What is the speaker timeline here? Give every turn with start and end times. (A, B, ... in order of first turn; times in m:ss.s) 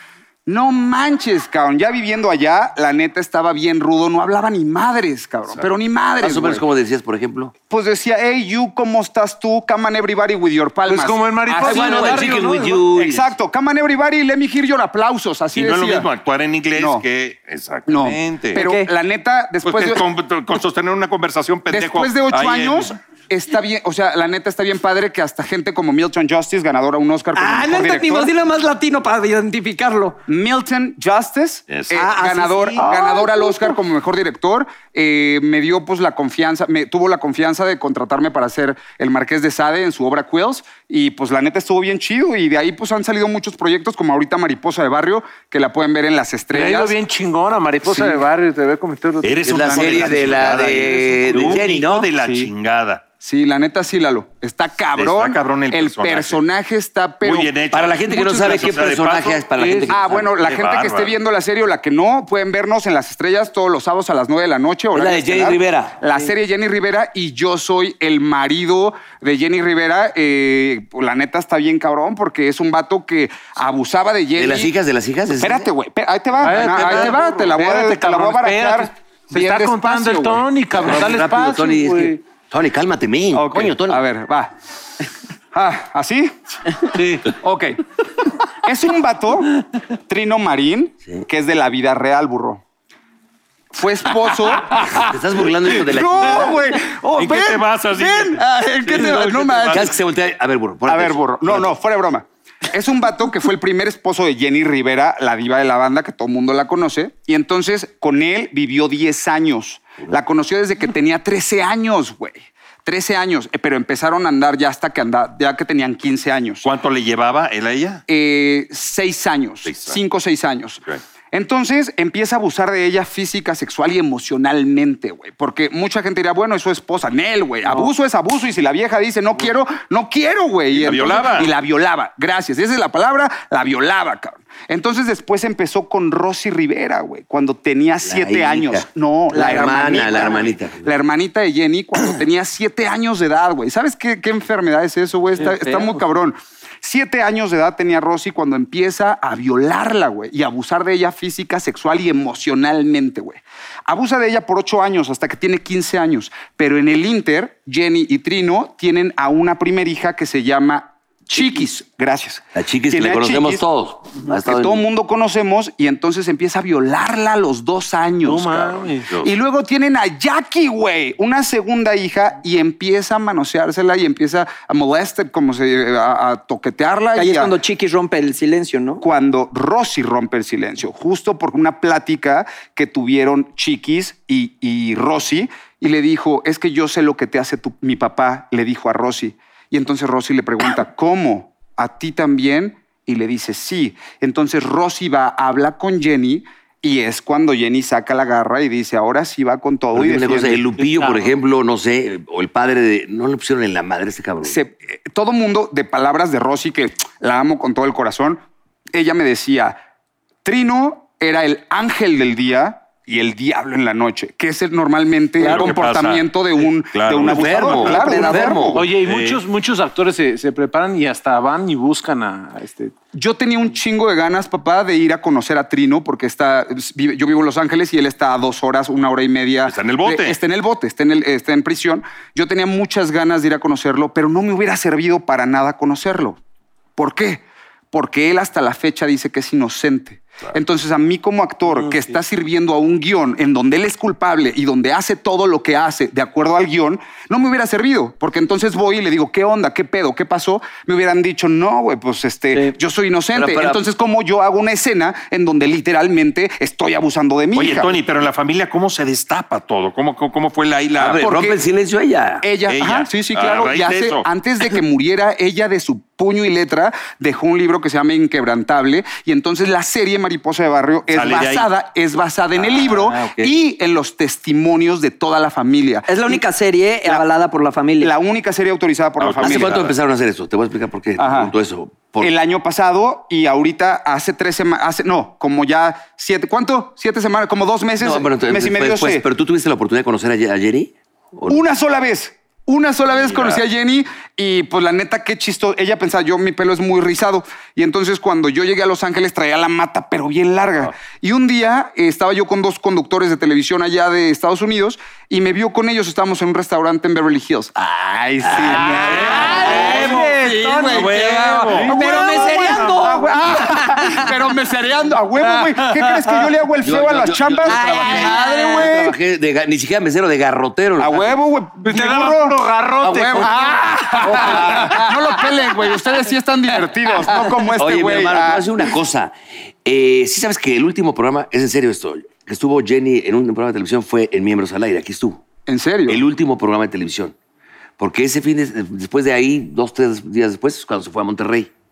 0:00.4-0:06.6 A
0:06.2-0:07.5 B
0:07.7-0:16.1 A
0:10.9-0:12.8 C
0:11.6-0:13.3 B
0:15.5-0:18.6 D
0:16.7-0:17.0 A
0:17.9-0:20.0 A
0:18.6-0:18.9 E
0:19.6-0:22.9 D
0:21.7-0:28.3 A
0:27.3-0:30.2 E
0:30.3-0:47.0 A
0:31.7-0:32.0 D
0:31.9-0:33.7 E
0:46.5-0:50.4 C
0:47.9-0:48.2 A
0:49.2-0:53.0 D
0:49.4-0:52.1 B
0:49.7-0:51.6 A
0:51.4-0:51.6 C
0:53.2-0:58.8 A
0:55.0-0:56.4 D
0:57.2-1:01.1 D
0:57.7-1:00.3 B
0:59.9-1:14.7 A
1:04.9-1:06.0 B
1:14.4-1:15.7 B
1:15.4-1:20.5 A
1:16.4-1:22.2 C
1:20.7-1:24.0 B
1:23.3-1:24.5 A
1:25.5-1:27.8 A
1:26.9-1:27.4 C
1:28.6-1:32.6 A
1:33.7-1:35.1 A
1:34.9-1:36.6 B
1:35.7-1:40.0 A
1:37.1-1:39.9 D
1:38.9-1:41.7 B
1:40.8-1:56.6 A
1:56.6-1:58.0 D
1:58.1-2:43.6 A
1:59.6-2:00.0 D
2:10.8-2:11.5 D
2:18.0-2:20.9 B
2:42.5-2:44.8 B
2:44.3-2:57.5 A
2:48.2-2:49.2 C
2:57.1-2:59.0 E
2:59.0-3:20.7 A
3:19.9-3:24.6 B
3:24.4-3:28.4 A
3:28.9-3:29.8 A
3:30.4-3:38.9 A
3:35.4-3:38.4 D
3:37.2-3:38.8 B
3:38.7-3:42.9 C
3:38.9-3:39.4 D
3:43.1-3:56.4 A
3:49.6-3:50.4 D
3:57.0-4:17.9 A
4:13.3-4:13.8 B
4:17.5-4:21.2 D
4:21.0-4:22.4 B
4:21.1-4:21.6 A
4:22.4-4:36.4 A
4:22.7-4:24.2 D
4:31.1-4:31.7 D
4:32.6-4:33.5 D
4:36.1-4:38.1 E
4:38.0-4:39.9 A
4:39.2-4:40.0 D
4:39.4-4:42.3 B
4:41.2-4:41.5 A
4:42.2-4:49.2 A
4:48.0-4:51.6 B
4:51.5-5:19.2 A
4:53.2-4:53.6 D
5:08.5-5:08.8 B
5:08.7-5:13.0 C
5:08.9-5:11.9 D
5:09.1-5:10.2 E
5:11.8-5:14.3 E
5:15.5-5:16.4 C
5:16.8-5:21.3 B
5:17.7-5:18.9 E
5:21.0-5:28.7 A
5:21.8-5:25.4 C
5:23.0-5:23.5 B
5:24.2-5:25.0 B
5:27.7-5:35.4 B
5:35.7-5:36.2 A
5:36.1-5:37.3 B
5:38.0-5:41.7 B